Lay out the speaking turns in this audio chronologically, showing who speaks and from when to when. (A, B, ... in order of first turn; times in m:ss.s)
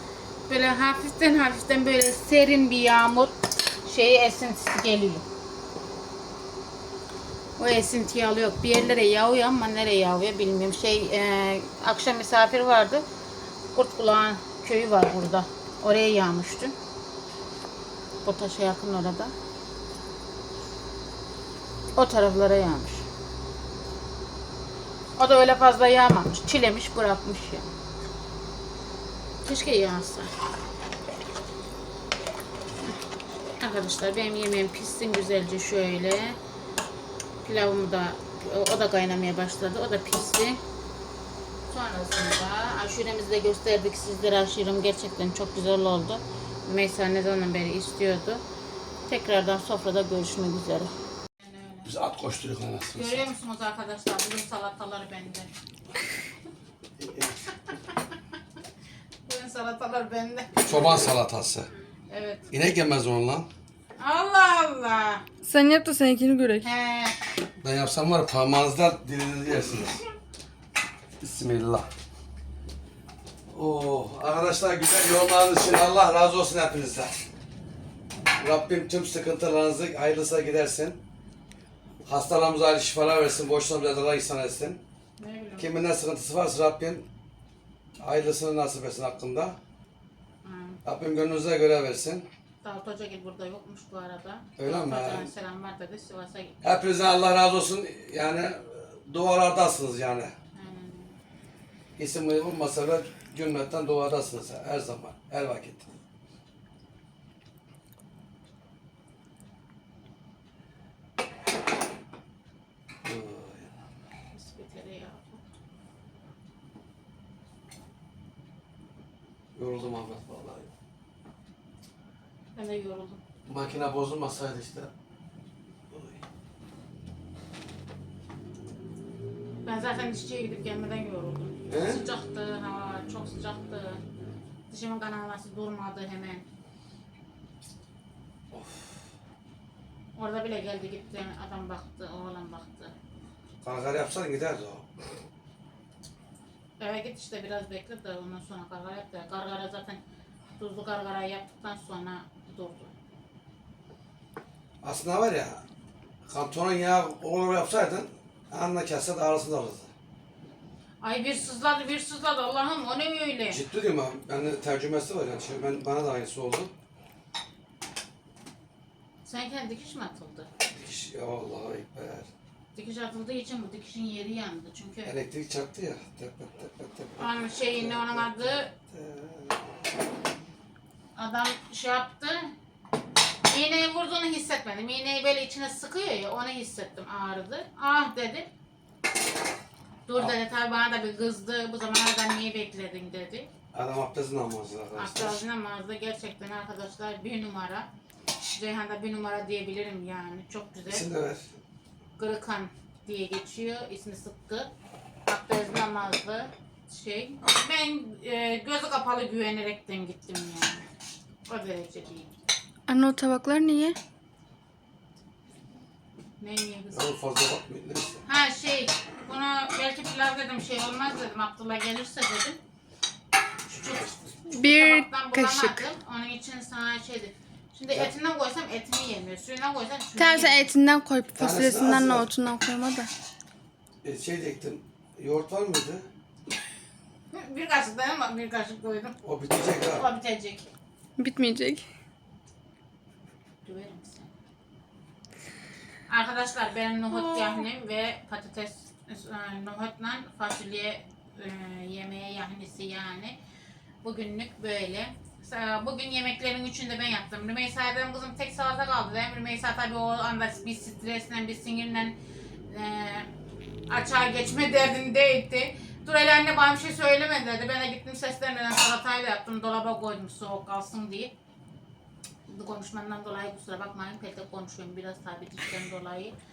0:00.5-0:05.2 A
0:07.6-0:13.0 A
0:13.7-0:16.7 A
0:18.2-0:19.3 A
0:22.0-0:23.1 A
0:25.2-0:27.7 A
0:29.4-0:30.3 A
0:33.6-0:36.4 A
0:37.4-0:40.6 A
0:41.7-0:48.4 A
0:49.1-0:51.9 A
0:51.8-0:53.3 B
0:52.9-0:55.5 A
0:57.0-0:57.3 B
0:59.2-1:00.6 A
1:00.6-1:01.7 B
1:02.1-1:02.5 A
1:02.5-1:03.5 B
1:04.0-1:05.2 A
1:05.4-1:06.6 C
1:06.6-1:07.2 A
1:07.6-1:10.0 B
1:11.2-1:11.9 B
1:13.5-1:17.2 B
1:18.4-1:21.0 B
1:22.0-1:24.8 B
1:25.2-1:25.7 A
1:25.6-1:27.1 B
1:28.0-1:29.6 B
1:30.4-1:30.8 A
1:30.8-1:32.3 B
1:32.6-1:36.6 A
1:34.6-1:35.3 B
1:36.6-1:40.3 B
1:40.6-1:41.2 A
1:42.0-1:46.0 B
1:53.0-1:53.7 B
1:54.3-1:55.4 A
1:59.5-2:00.7 B
2:02.5-2:03.2 A
2:03.4-2:04.9 B
2:09.6-2:14.0 A
2:11.7-2:12.1 B
2:14.7-2:16.4 A
2:18.5-2:18.9 B
2:20.2-2:22.9 A
2:23.6-2:24.9 B
2:26.8-2:30.0 A
2:30.6-2:32.9 A
2:34.8-2:35.6 B
2:36.3-2:39.9 B
2:41.0-2:43.6 A
2:43.5-2:46.7 B
2:49.2-2:50.5 A
2:50.7-2:52.3 B
2:52.7-2:55.2 A
2:55.0-2:59.7 B
2:57.2-2:58.7 A
3:01.2-3:02.5 A
3:03.5-3:08.5 A
3:10.1-3:13.5 A
3:13.7-3:15.4 B
3:15.0-3:17.9 A
3:18.5-3:21.1 A
3:20.9-3:21.5 B
3:22.2-3:24.7 A
3:25.3-3:30.9 A
3:31.5-3:32.3 A
3:32.9-3:34.0 C
3:36.4-3:37.0 A
3:36.9-3:38.2 B
3:38.2-3:42.6 A
3:43.7-3:50.7 A
3:44.5-3:45.8 C
3:50.2-3:53.1 C
3:51.3-3:52.3 B
3:54.0-3:56.1 B
3:57.3-3:59.2 A
3:59.2-4:00.1 B
3:59.8-4:00.7 A
4:01.2-4:01.8 C
4:03.6-4:04.3 A
4:06.1-4:13.4 A
4:14.0-4:23.3 A
4:23.9-4:31.3 A
4:32.5-4:36.3 A